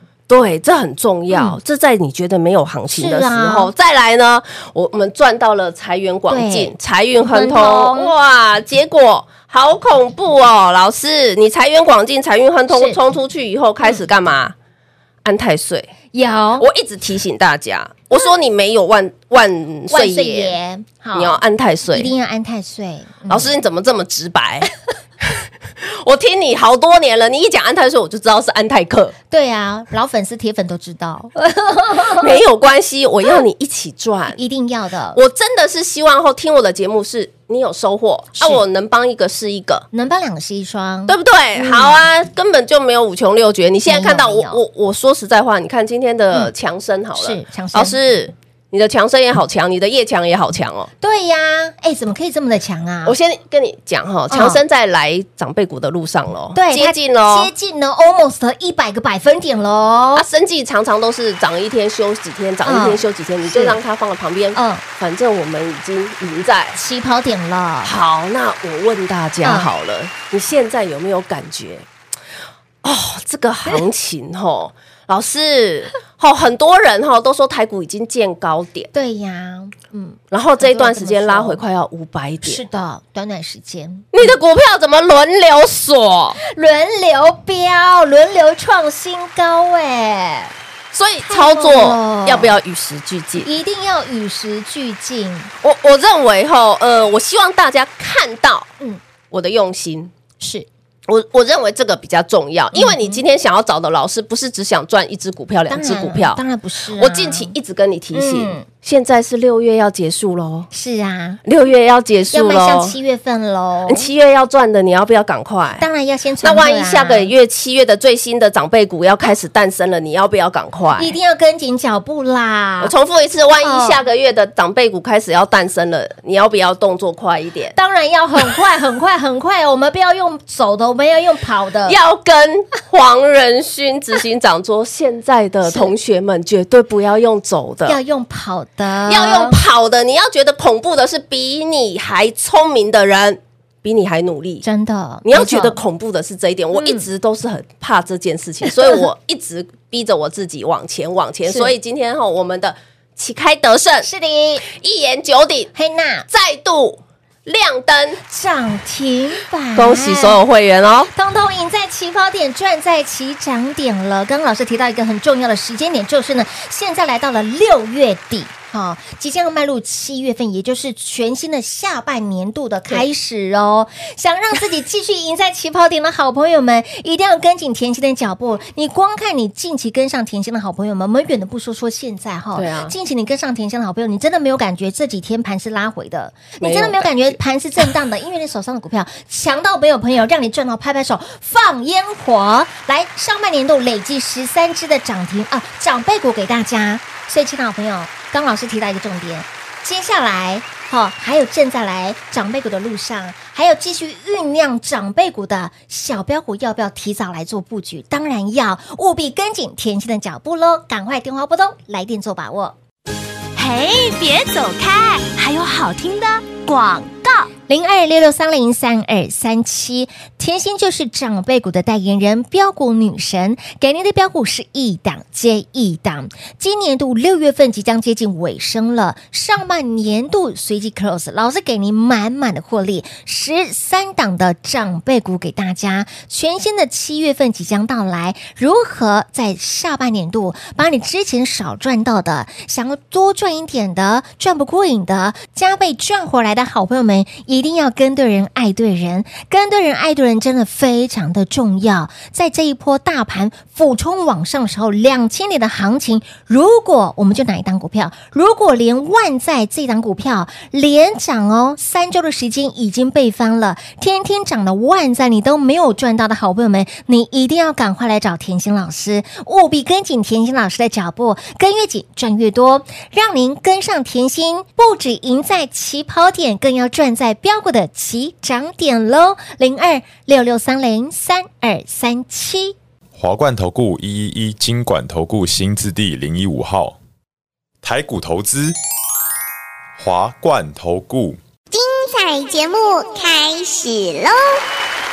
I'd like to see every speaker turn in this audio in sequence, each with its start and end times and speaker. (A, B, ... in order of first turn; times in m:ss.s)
0:00.3-0:14.5 A
0:01.3-0:01.6 B
0:02.9-0:03.7 B
0:06.3-0:06.7 B
0:07.2-0:08.1 B
0:12.7-0:13.0 B
0:15.2-0:15.9 A
0:16.1-0:16.7 B
0:16.6-0:20.5 A
0:19.9-0:21.4 B
0:21.1-0:22.1 A
0:21.9-0:23.5 B
0:23.3-0:24.7 A
0:25.8-0:29.1 A
0:29.3-0:32.3 B
0:32.1-0:34.4 A
0:34.3-0:35.2 B
0:35.1-0:39.8 A
0:38.4-0:38.6 B
0:39.9-0:42.0 B
0:41.1-0:50.9 A
0:43.8-0:44.6 B
0:47.2-0:48.0 B
0:51.0-0:53.2 B
0:53.0-0:57.5 A
0:54.3-0:54.6 B
0:56.5-1:00.2 B
1:00.2-1:06.8 A
1:02.6-1:03.8 B
1:04.5-1:04.8 B
1:06.7-1:07.9 B
1:07.8-1:11.8 A
1:09.4-1:09.7 B
1:12.8-1:18.9 A
1:18.9-1:21.6 B
1:20.3-1:22.6 A
1:22.4-1:24.3 B
1:24.1-1:26.4 A
1:26.4-1:30.5 B
1:30.9-1:33.5 A
1:31.2-1:32.5 B
1:33.4-1:35.5 B
1:35.6-1:38.7 A
1:39.3-1:40.1 A
1:40.4-1:40.7 B
1:41.1-1:46.4 A
1:42.7-1:43.2 B
1:45.7-1:47.5 B
1:47.0-1:50.7 A
1:48.1-1:48.6 B
1:50.7-1:51.4 B
1:51.4-1:52.9 A
1:52.3-1:54.1 B
1:53.9-1:55.8 A
1:55.8-1:57.3 B
1:56.4-2:01.1 A
2:01.0-2:02.9 B
2:02.8-2:07.7 A
2:03.6-2:04.0 B
2:07.7-2:12.0 B
2:11.9-2:18.0 A
2:15.6-2:15.9 B
2:17.8-2:19.6 B
2:19.1-2:24.6 A
2:24.6-2:25.8 B
2:25.2-2:34.1 A
2:26.7-2:27.0 B
2:31.4-2:31.7 B
2:34.0-2:34.6 B
2:34.6-2:35.7 A
2:35.7-2:36.2 B
2:36.3-2:38.2 A
2:38.3-2:40.4 B
2:39.8-2:41.1 A
2:41.1-3:32.7 B
3:02.6-3:02.9 A
3:06.6-3:07.4 A
3:33.6-3:37.5 C
3:37.7-4:42.7 B
4:43.1-4:47.0 D
4:47.8-4:48.7 D
4:50.0-4:51.4 D
4:51.7-4:54.6 E